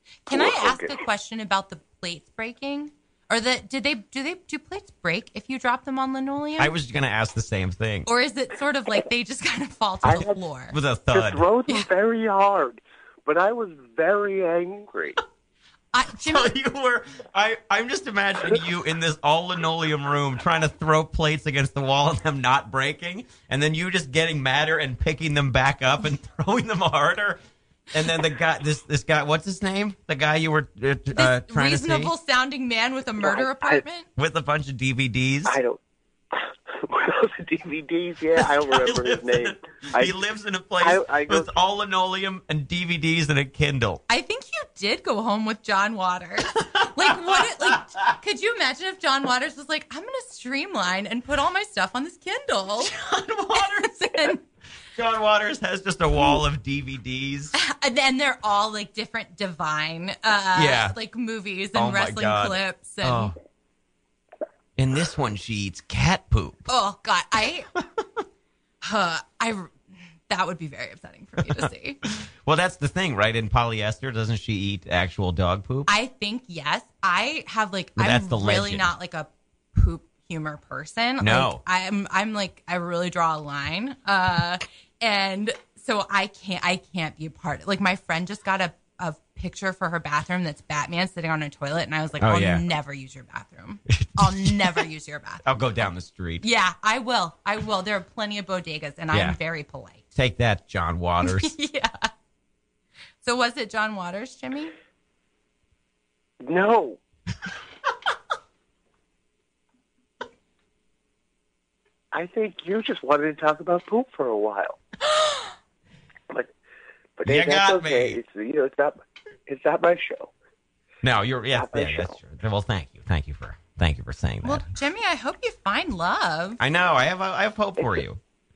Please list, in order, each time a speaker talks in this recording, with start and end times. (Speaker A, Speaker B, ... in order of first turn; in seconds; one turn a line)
Speaker A: 0.3-6.7
Speaker B: 0.3-1.0
Speaker C: 6.6-8.1
Speaker A: 8.1-10.8
Speaker B: 10.0-10.3
Speaker C: 10.7-11.4
Speaker B: 11.1-15.2
Speaker A: 15.9-16.5
Speaker C: 16.2-27.4
Speaker C: 27.9-32.1
Speaker A: 31.1-34.1
Speaker B: 33.2-33.8
Speaker C: 34.2-35.6
Speaker B: 35.5-35.8
Speaker B: 36.3-40.1
Speaker C: 38.4-44.0
Speaker B: 40.8-41.5
Speaker A: 44.1-52.9
Speaker C: 46.5-48.1
Speaker C: 52.8-54.3
Speaker A: 53.5-54.4
Speaker C: 55.0-57.5
Speaker A: 57.5-63.3
Speaker C: 60.5-61.0
Speaker C: 61.8-63.4
Speaker C: 64.8-66.7
Speaker A: 66.7-67.7
Speaker A: 68.8-69.7
Speaker A: 70.3-72.0
Speaker C: 72.2-75.9
Speaker A: 75.9-95.4
Speaker C: 78.0-78.9
Speaker C: 81.2-81.6
Speaker C: 92.2-92.7
Speaker C: 93.9-94.8
Speaker C: 95.5-96.4
Speaker A: 96.4-100.0
Speaker C: 99.1-99.4
Speaker C: 100.2-101.5
Speaker A: 101.2-102.1
Speaker A: 103.2-104.7
Speaker B: 106.4-107.0
Speaker B: 112.1-114.8
Speaker B: 117.2-120.3
Speaker C: 117.2-118.2
Speaker C: 121.0-124.7
Speaker B: 121.5-122.2
Speaker A: 124.4-126.6
Speaker C: 126.6-128.2